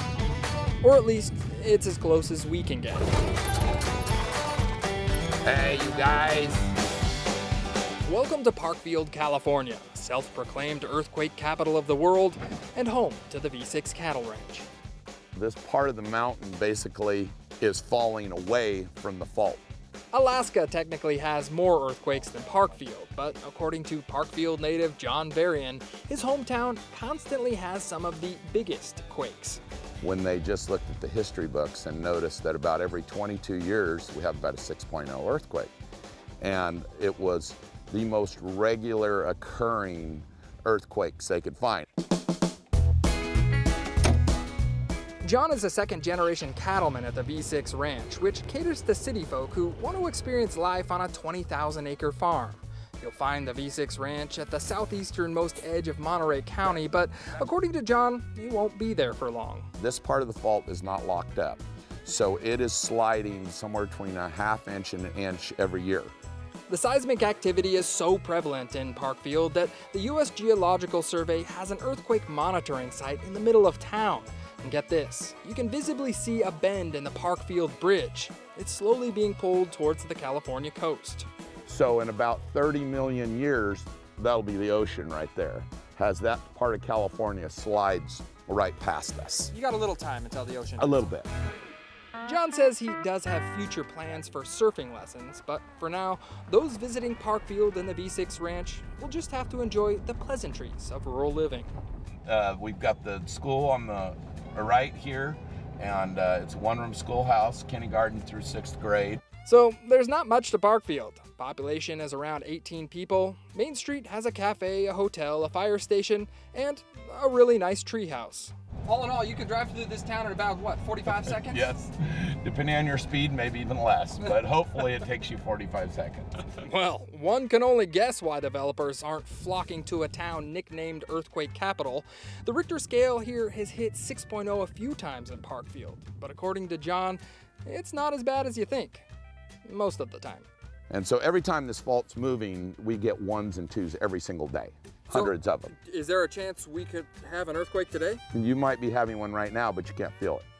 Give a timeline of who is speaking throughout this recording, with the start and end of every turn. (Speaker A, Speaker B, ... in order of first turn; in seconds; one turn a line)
Speaker A: 0.8-3.1
Speaker B: 5.4-6.6
Speaker A: 8.0-14.7
Speaker B: 15.3-19.6
Speaker A: 20.1-29.6
Speaker B: 30.0-35.7
Speaker B: 36.4-41.9
Speaker A: 45.2-59.7
Speaker B: 59.8-66.1
Speaker A: 66.7-81.3
Speaker B: 81.7-89.5
Speaker A: 89.5-91.1
Speaker B: 90.8-91.3
Speaker A: 92.2-101.7
Speaker B: 102.3-109.2
Speaker A: 109.4-121.7
Speaker B: 121.1-126.6
Speaker A: 126.6-139.1
Speaker A: 139.6-140.5
Speaker B: 140.9-145.7
Speaker A: 145.1-148.2
Speaker B: 148.3-150.4